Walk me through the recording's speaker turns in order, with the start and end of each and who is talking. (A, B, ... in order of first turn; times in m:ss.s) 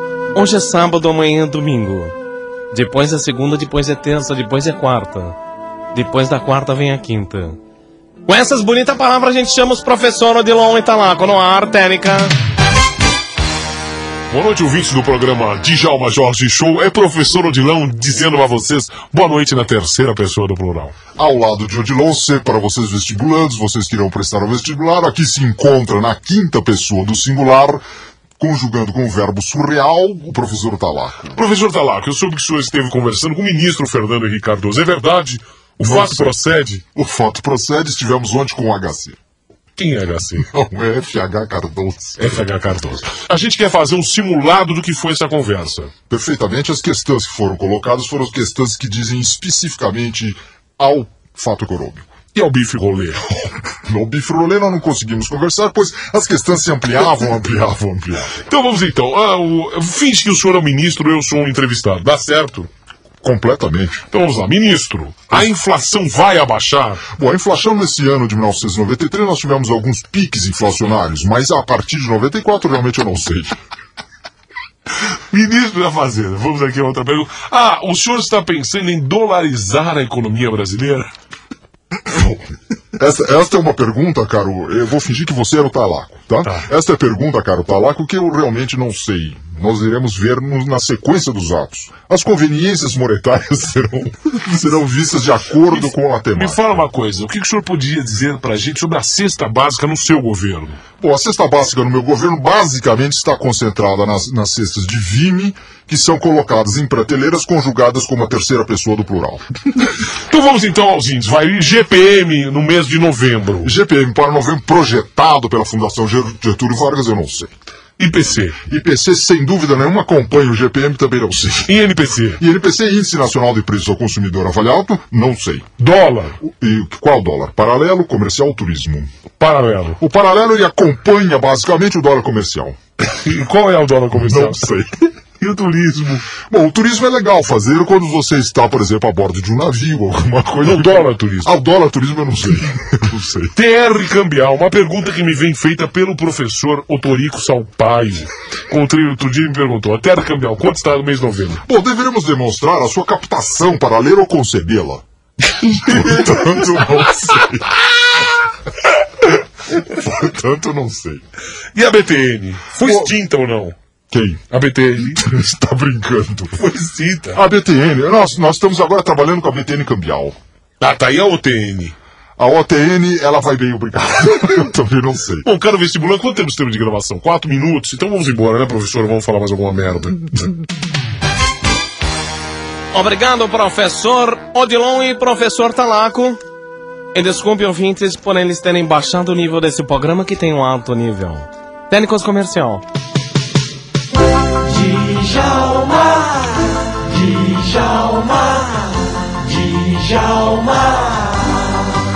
0:00.3-0:02.1 A
0:02.7-0:05.4 A
0:05.9-0:07.6 A
0:08.2-0:12.3 A
0:14.3-0:21.0 B
0:21.1-0:27.8 C
0:28.4-0:31.4 C
0:31.3-0:36.8 B
0:35.8-0:36.4 C
0:36.9-0:39.2 C
0:39.8-0:40.5 B
0:40.5-0:42.5 C
0:42.2-0:45.9 B
0:46.1-0:52.1 C
0:52.3-0:53.5 B
0:53.7-0:58.4 C
0:58.4-1:02.7 B
1:03.2-1:04.0 C
1:04.0-1:07.0 B
1:07.1-1:13.5 C
1:15.3-1:21.1 B
1:22.1-1:22.4 C
1:22.9-1:36.6 C
1:35.8-1:40.8 B
1:41.0-1:49.4 C
1:49.9-1:53.7 B
1:53.6-1:57.5 C
1:58.0-1:58.6 B
1:58.6-2:01.7 C
2:01.6-2:02.4 B
2:02.4-2:05.6 C
2:05.8-2:06.4 B
2:06.4-2:09.1 C
2:09.4-2:10.0 B
2:10.0-2:12.8 C
2:13.0-2:14.7 B
2:14.2-2:15.1 C
2:15.4-2:16.2 B
2:16.4-2:23.5 C
2:20.6-2:21.5 B
2:23.5-2:31.6 B
2:31.6-2:35.0 C
2:35.6-2:36.7 B
2:35.8-2:37.7 C
2:39.7-2:41.2 C
2:41.7-2:43.7 B
2:42.8-2:43.1 C
2:44.1-2:44.4 C
2:44.5-2:45.3 B
2:45.1-2:46.6 C
2:46.6-2:47.4 B
2:47.3-2:50.3 C
2:50.8-2:51.9 B
2:52.4-2:55.5 C
2:55.4-3:00.5 B
3:02.9-3:06.4 A
3:07.1-3:12.8 A
3:14.6-3:21.6 A